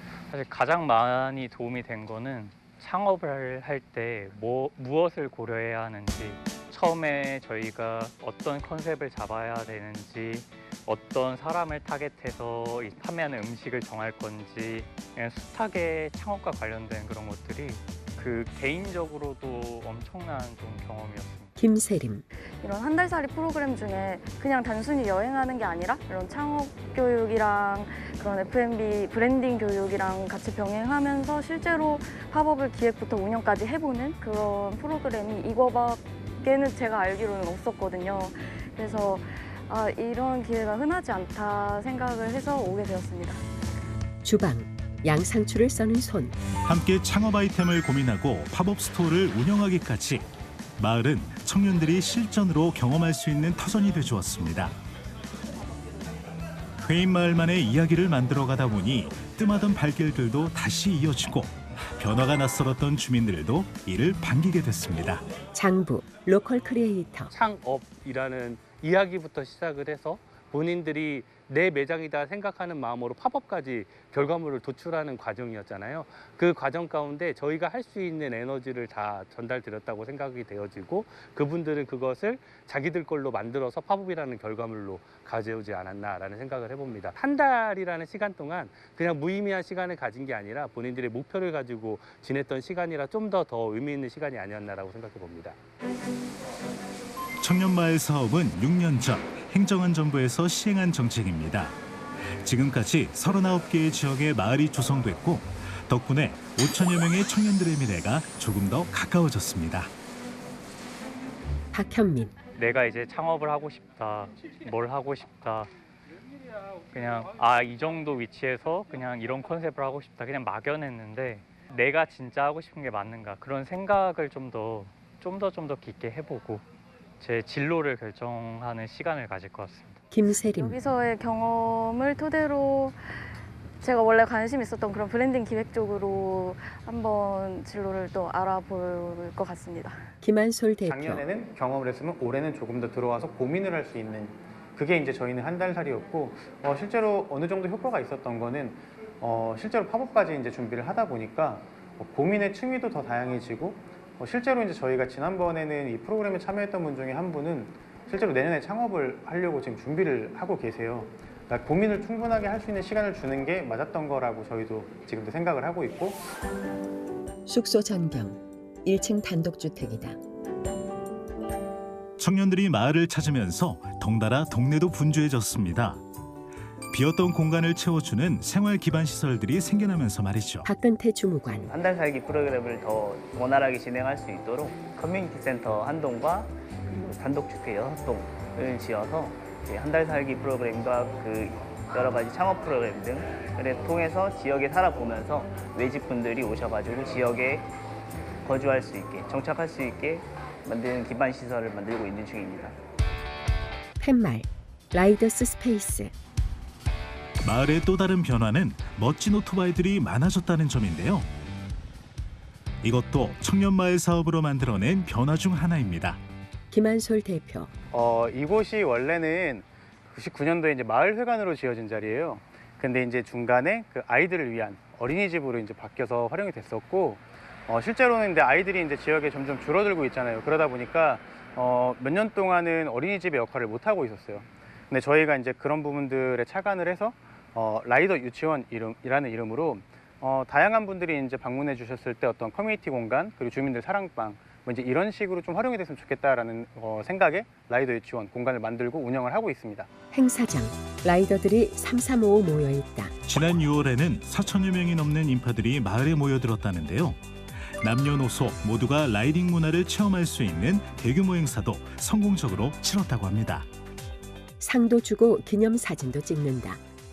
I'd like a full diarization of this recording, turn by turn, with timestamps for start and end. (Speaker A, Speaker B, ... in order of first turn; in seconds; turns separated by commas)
Speaker A: 0.3-21.5, Speaker B: 21.6-22.2, Speaker C: 22.6-43.4, Speaker B: 44.2-46.4, Speaker D: 46.6-54.8, Speaker D: 56.8-65.2, Speaker B: 65.5-67.3, Speaker E: 67.3-95.6, Speaker D: 97.4-101.8, Speaker D: 102.3-109.9, Speaker B: 111.7-112.3, Speaker A: 112.5-115.7, Speaker A: 116.9-126.6, Speaker A: 127.2-130.1, Speaker B: 130.1-130.8, Speaker C: 130.5-133.3, Speaker C: 133.8-140.1, Speaker B: 140.2-141.2, Speaker F: 140.9-166.2, Speaker B: 167.5-170.2, Speaker D: 172.2-176.0, Speaker D: 176.9-180.7, Speaker B: 180.6-181.7, Speaker G: 181.7-197.7, Speaker G: 198.4-202.8, Speaker B: 204.0-206.1, Speaker D: 207.4-211.3, Speaker D: 212.8-216.2, Speaker B: 216.7-217.7, Speaker F: 217.9-249.9, Speaker B: 250.1-253.1, Speaker D: 253.3-257.2, Speaker D: 257.8-263.6, Speaker B: 264.6-266.8